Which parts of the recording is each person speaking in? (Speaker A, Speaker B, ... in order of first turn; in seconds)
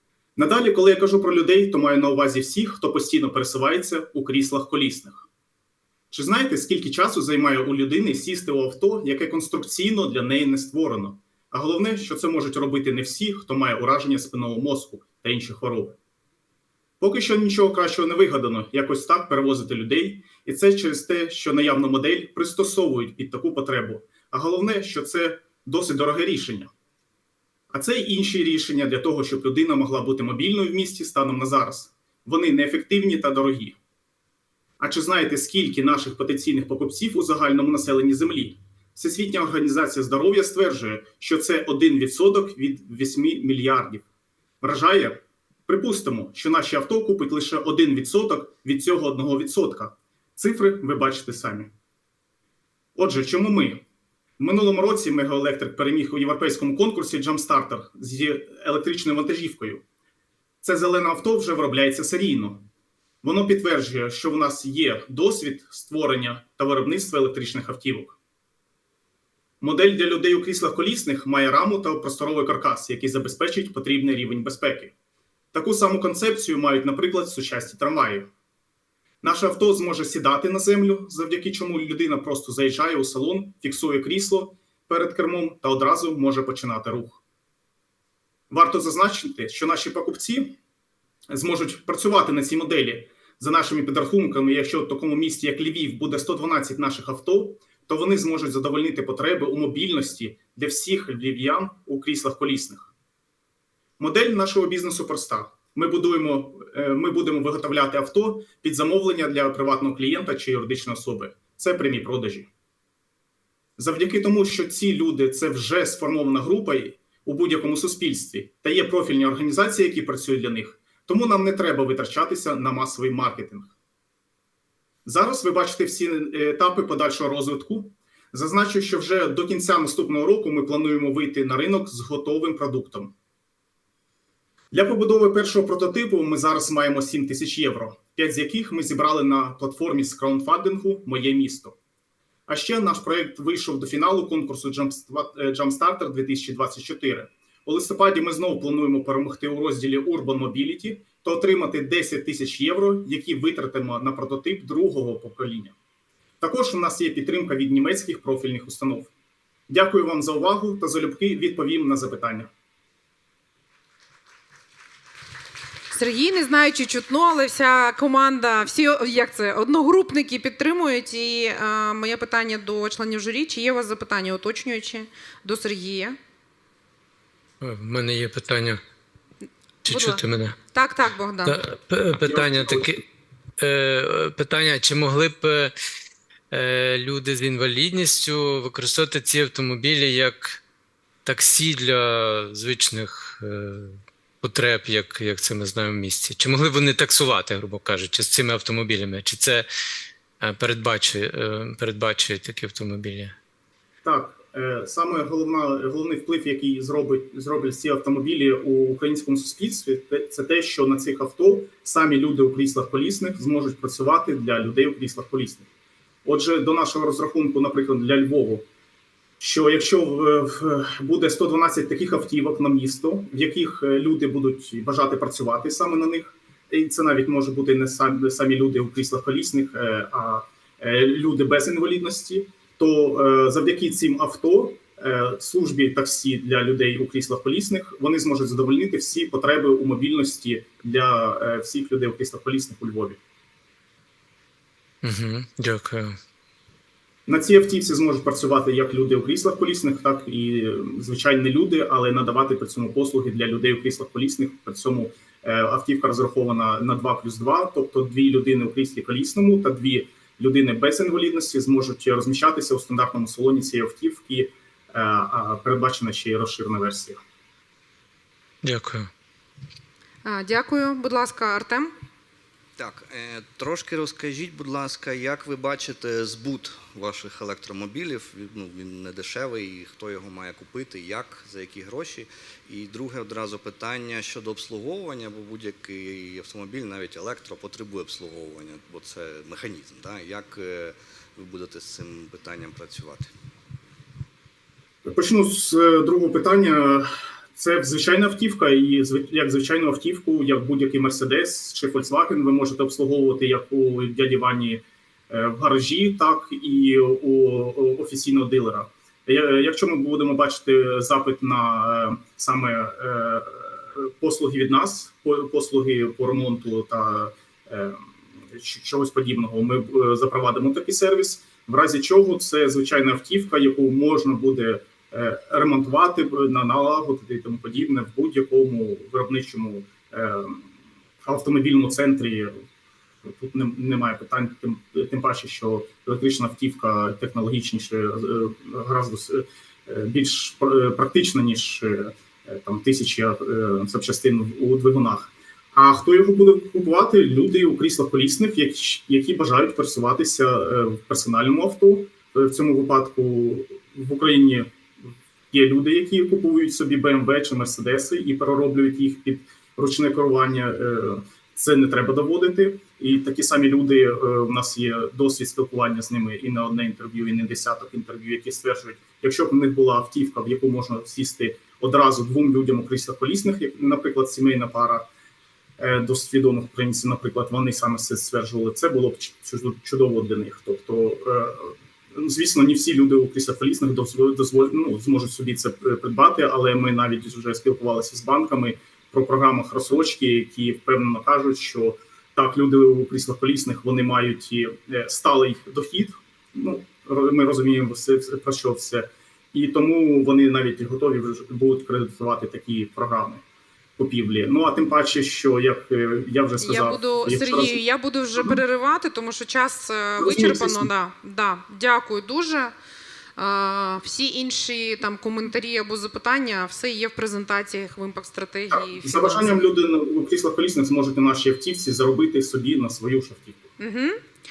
Speaker A: 0.4-5.3, 6.1-16.0, 17.0-26.7, 27.7-33.8, 34.8-44.0, 44.6-51.7, 53.0-53.8, 54.4-59.8, 60.6-62.7, 63.2-68.2, 69.6-74.9, 75.5-78.3, 79.2-87.2, 88.5-90.5, 91.3-102.9, 104.0-112.5, 113.8-123.7, 125.0-133.1, 134.7-141.8, 142.5-155.8, 156.4-159.1, 159.7-162.5, 182.2-183.0, 204.0-215.7, 216.2-218.7, 219.4-243.2, 247.3-267.2, 295.1-330.7, 331.2-332.6, 333.3-354.7, 355.5-375.0, 375.8-403.4, 404.0-407.8, 410.2-410.9, 418.7-423.6
Speaker B: 165.9-176.2, 179.9-181.6, 270.2-271.9, 406.6-412.7, 413.4-419.6, 423.8-424.2
Speaker C: 177.6-178.8, 179.8-180.6, 181.6-183.0, 183.6-185.7, 186.5-190.6, 191.2-199.7, 200.4-203.3, 245.0-246.2, 268.6-269.1
Speaker D: 272.8-293.3